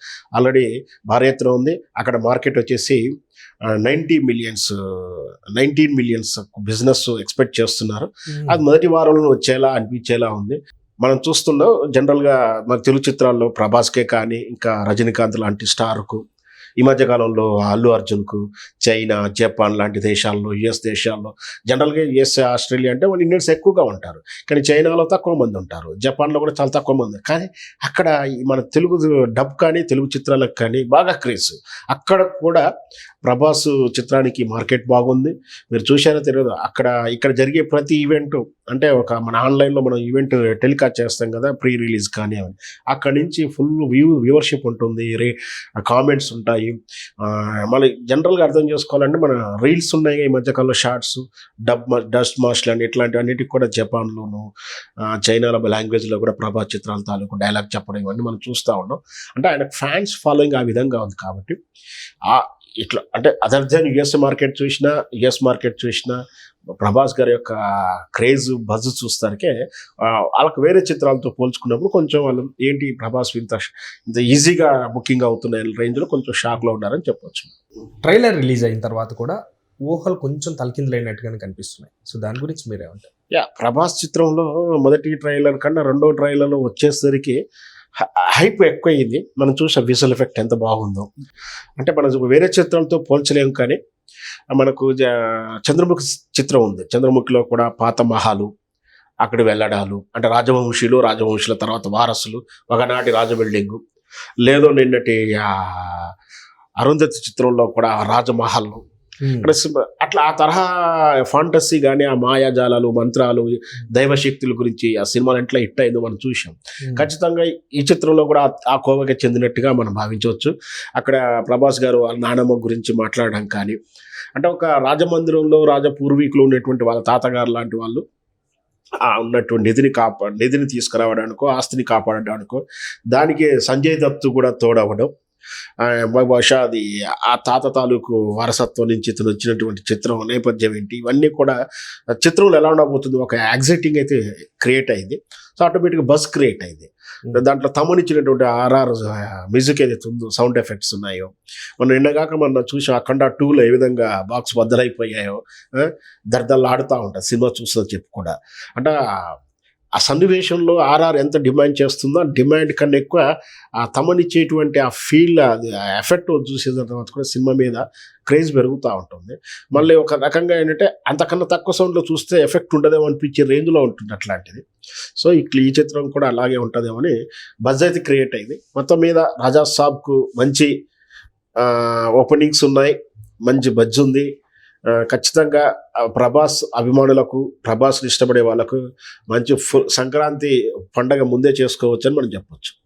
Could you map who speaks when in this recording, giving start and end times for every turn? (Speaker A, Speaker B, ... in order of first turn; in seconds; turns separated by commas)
Speaker A: 0.4-3.0, Speaker A: 3.7-16.2, Speaker B: 8.3-8.6, Speaker A: 16.8-32.6, Speaker A: 33.2-54.5, Speaker A: 55.0-61.6, Speaker A: 62.3-66.2, Speaker A: 66.8-67.6, Speaker A: 68.2-77.5, Speaker B: 78.0-83.1, Speaker A: 83.3-87.4, Speaker A: 88.0-91.1, Speaker A: 91.8-93.8, Speaker A: 94.5-98.5, Speaker A: 99.2-103.8, Speaker A: 104.5-106.1, Speaker A: 106.8-108.8, Speaker B: 109.2-109.5, Speaker A: 109.4-123.8, Speaker B: 116.8-117.1, Speaker A: 124.4-128.0, Speaker A: 129.1-135.1, Speaker A: 135.8-141.6, Speaker A: 142.2-158.9, Speaker A: 160.0-163.2, Speaker A: 163.8-174.6, Speaker A: 175.2-177.1, Speaker A: 177.7-180.7, Speaker A: 181.6-182.9, Speaker A: 183.5-184.3, Speaker A: 184.9-188.8, Speaker A: 189.3-192.8